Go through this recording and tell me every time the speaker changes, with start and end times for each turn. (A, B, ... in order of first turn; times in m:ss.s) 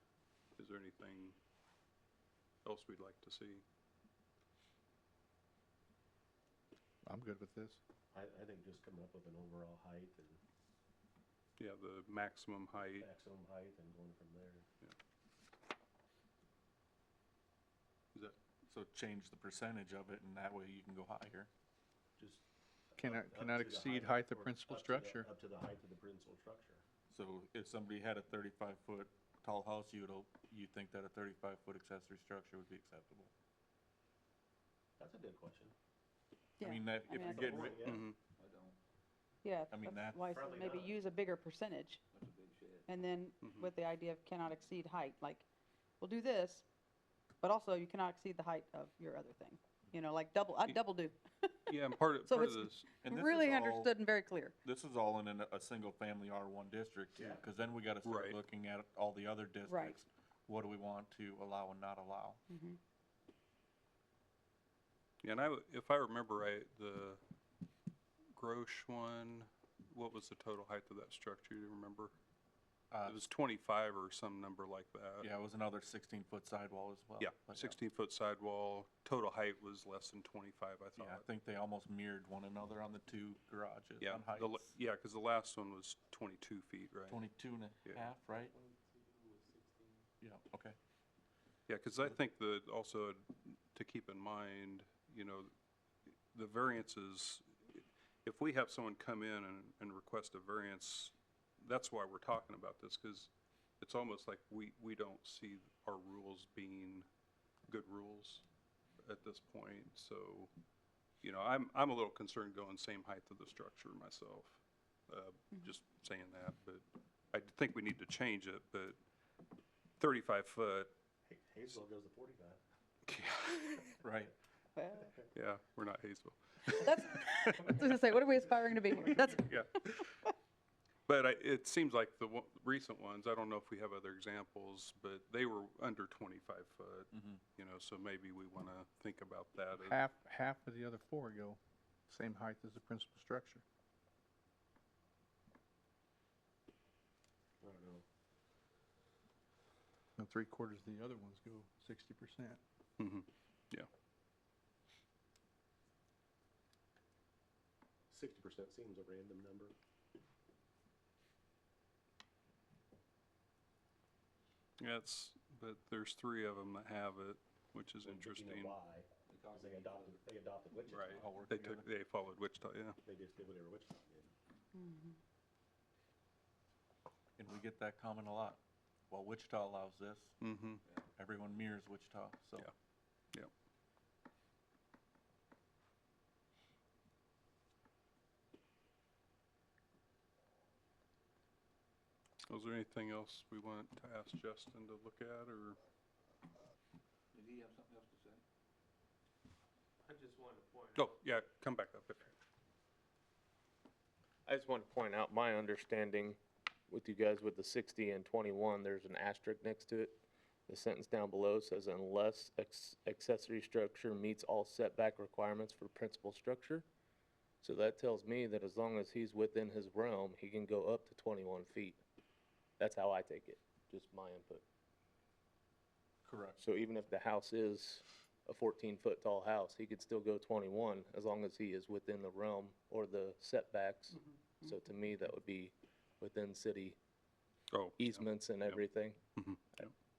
0:00.6-0:01.4 A
0:02.6-0:03.6 A
0:07.0-0:07.8 B
0:08.1-0:10.4 C
0:11.6-0:13.1 A
0:13.0-0:14.6 C
0:18.6-0:21.5 D
0:22.2-0:26.8 C
0:23.0-0:25.2 B
0:27.1-0:33.3 D
0:35.0-0:35.7 C
0:36.6-0:37.8 E
0:36.6-0:37.9 D
0:37.1-0:38.0 C
0:37.8-0:38.2 A
0:38.4-0:38.8 F
0:39.4-0:42.0 E
0:39.7-0:40.3 D
0:40.3-0:41.0 C
0:42.1-0:42.8 F
0:42.9-0:45.4 E
0:43.4-0:43.7 A
0:46.0-0:46.6 E
0:47.4-0:54.5 E
0:51.7-0:52.9 A
0:53.0-0:53.9 D
0:54.6-1:02.4 D
0:57.1-0:57.4 C
0:58.0-0:58.4 A
0:59.6-1:00.0 E
1:02.5-1:02.8 E
1:05.2-1:07.2 A
1:08.3-1:12.1 A
1:12.9-1:13.3 D
1:13.0-1:15.3 A
1:15.2-1:17.8 D
1:17.2-1:21.2 A
1:21.0-1:24.7 D
1:24.0-1:27.2 A
1:27.1-1:28.5 D
1:28.4-1:30.0 C
1:30.2-1:30.8 D
1:31.7-1:35.5 A
1:36.3-1:47.1 A
1:47.7-1:48.4 A
1:49.0-1:50.5 A
1:51.2-1:59.0 A
2:00.0-2:00.9 A
2:01.2-2:02.6 C
2:03.0-2:03.9 A
2:04.0-2:04.3 D
2:04.8-2:05.1 E
2:05.3-2:07.8 A
2:06.7-2:10.3 E
2:09.1-2:10.2 A
2:11.1-2:20.0 A
2:19.8-2:23.6 B
2:27.6-2:28.0 C
2:30.2-2:32.6 B
2:33.0-2:33.9 A
2:38.1-2:39.7 C
2:44.8-2:48.8 A
2:48.0-2:51.2 C
2:49.3-2:50.2 F
2:50.9-2:53.0 A
2:51.1-2:51.9 D
2:53.0-2:54.3 C
2:54.7-2:55.2 E
2:57.4-3:00.4 D
3:00.4-3:00.8 A
3:01.2-3:02.7 D
3:12.5-3:15.8 A
3:17.3-3:18.4 F
3:20.0-3:21.2 C
3:20.9-3:22.3 A
3:24.4-3:26.4 G
3:26.9-3:30.2 G
3:30.7-3:36.8 G
3:37.6-3:42.0 G
3:42.8-3:44.6 G
3:46.2-3:46.6 D
3:46.6-3:57.0 G
3:57.7-3:58.8 A
3:58.0-3:59.2 G
3:59.4-3:59.9 A